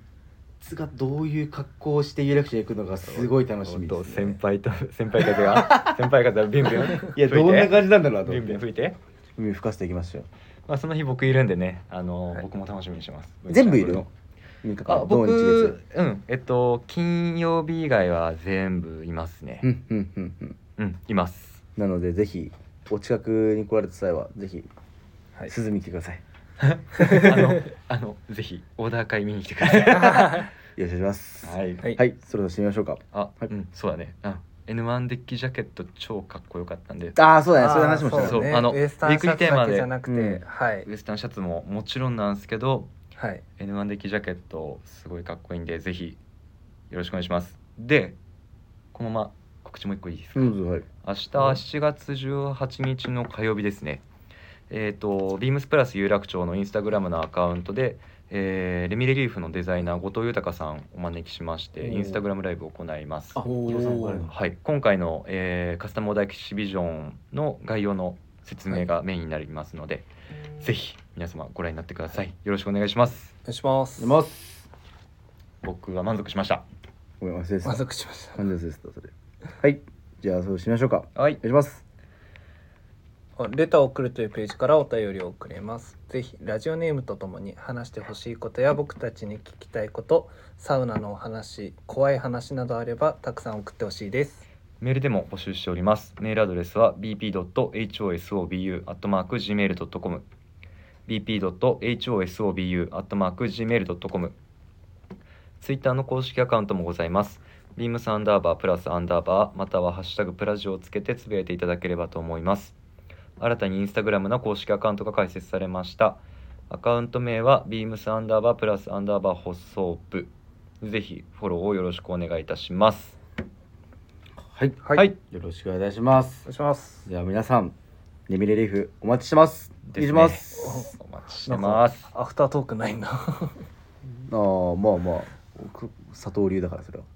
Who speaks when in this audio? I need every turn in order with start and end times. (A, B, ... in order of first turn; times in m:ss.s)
0:00.6-0:04.4 A
0:03.1-0:09.0 B
0:05.2-0:06.0 A
0:06.7-0:08.6 A
0:09.4-0:10.3 A
0:10.7-0:14.1 B
0:13.5-0:14.1 A
0:14.6-0:15.8 A
0:14.9-0:19.7 B
0:19.6-0:20.6 A
0:20.8-0:21.6 B
0:21.8-0:24.7 A
0:25.5-0:26.2 A
0:26.6-0:30.5 B
0:27.0-0:27.4 A
0:27.0-0:27.4 C
0:29.8-0:30.5 C
0:30.8-0:33.5 A
0:31.4-0:31.9 B
0:33.1-0:37.2 B
0:37.2-0:38.5 A
0:37.5-0:40.9 C
0:38.1-0:40.0 B
0:40.1-0:40.4 A
0:40.8-0:42.9 B
0:43.2-0:43.4 C
0:43.6-0:46.2 B
0:46.9-0:48.2 B
0:48.9-0:54.0 B
0:50.4-0:50.9 A
0:54.7-1:10.1 B
1:01.8-1:02.2 A
1:03.4-1:04.3 A
1:03.4-1:04.2 C
1:10.6-1:13.3 B
1:13.4-1:14.2 C
1:14.0-1:14.6 A
1:15.6-1:16.6 B
1:17.2-1:21.8 A
1:17.6-1:18.5 C
1:21.2-1:21.4 B
1:23.4-1:34.5 C
1:34.8-1:40.3 B
1:41.1-1:44.4 B
1:45.6-1:52.8 B
1:53.4-2:03.2 B
2:04.5-2:06.5 A
2:06.5-2:07.1 C
2:07.1-2:07.7 A
2:08.3-2:10.9 A
2:09.9-2:12.1 B
2:10.5-2:13.6 C
2:14.1-2:17.1 A